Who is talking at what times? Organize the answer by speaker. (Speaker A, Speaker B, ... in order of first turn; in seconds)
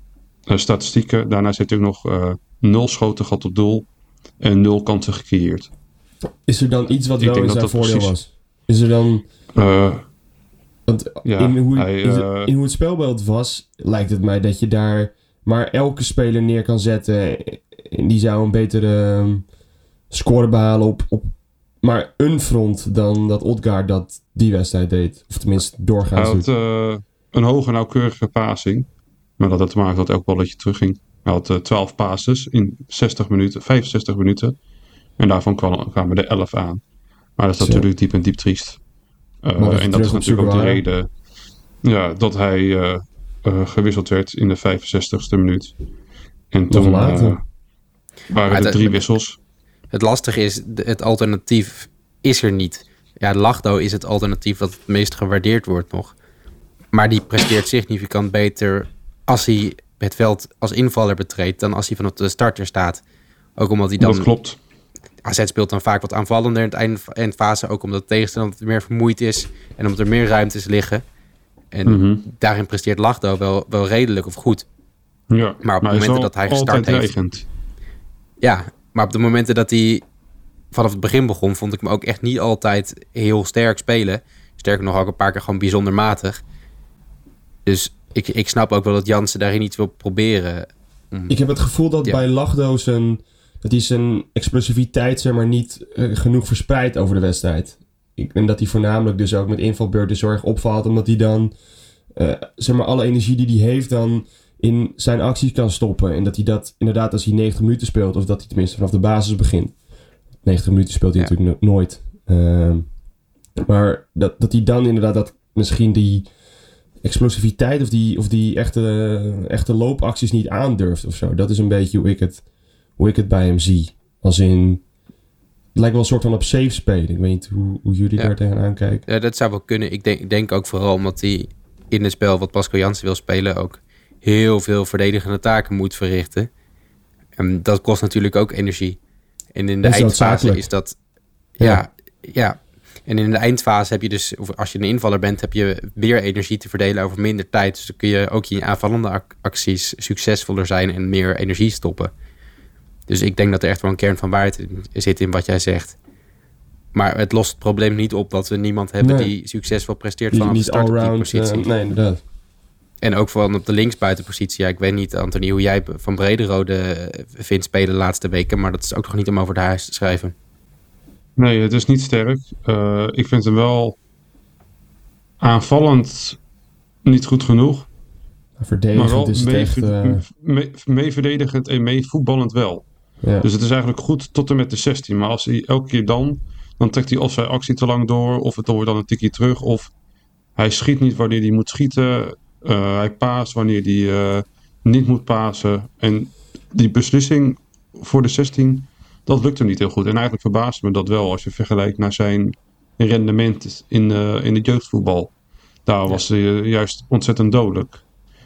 Speaker A: 0.5-3.9, 4.4-5.7, 7.2-8.1, 9.5-10.0, 11.2-12.5, 26.1-28.9, 29.4-34.5, 35.2-36.8, 37.4-38.8, 39.4-41.1, 41.8-45.7, 46.5-47.4, 48.3-49.4, 64.0-64.6, 71.8-72.2, 75.3-77.4, 171.4-174.0, 175.4-176.4, 177.0-177.9, 178.9-182.9, 183.4-189.9, 190.6-205.3, 205.8-208.0
Speaker B: 6.5-9.3, 10.8-19.4, 20.1-26.5, 37.6-37.9, 39.6-40.8, 46.7-47.4, 91.3-101.5, 102.1-109.8, 110.4-112.9, 113.6-116.3, 117.0-122.4, 123.0-124.8, 125.7-129.0, 139.8-140.7, 159.0-159.3, 160.3-162.2, 178.6-180.2, 183.2-183.5
Speaker C: 48.5-49.0, 49.9-56.1, 56.9-63.0, 63.5-64.3, 65.2-71.0, 71.7-74.7, 75.6-77.1, 78.4-80.0, 80.7-86.4, 87.6-91.3, 129.1-136.5, 137.4-139.0, 139.5-141.0, 141.6-152.1, 153.1-156.0, 156.9-161.7, 163.0-170.3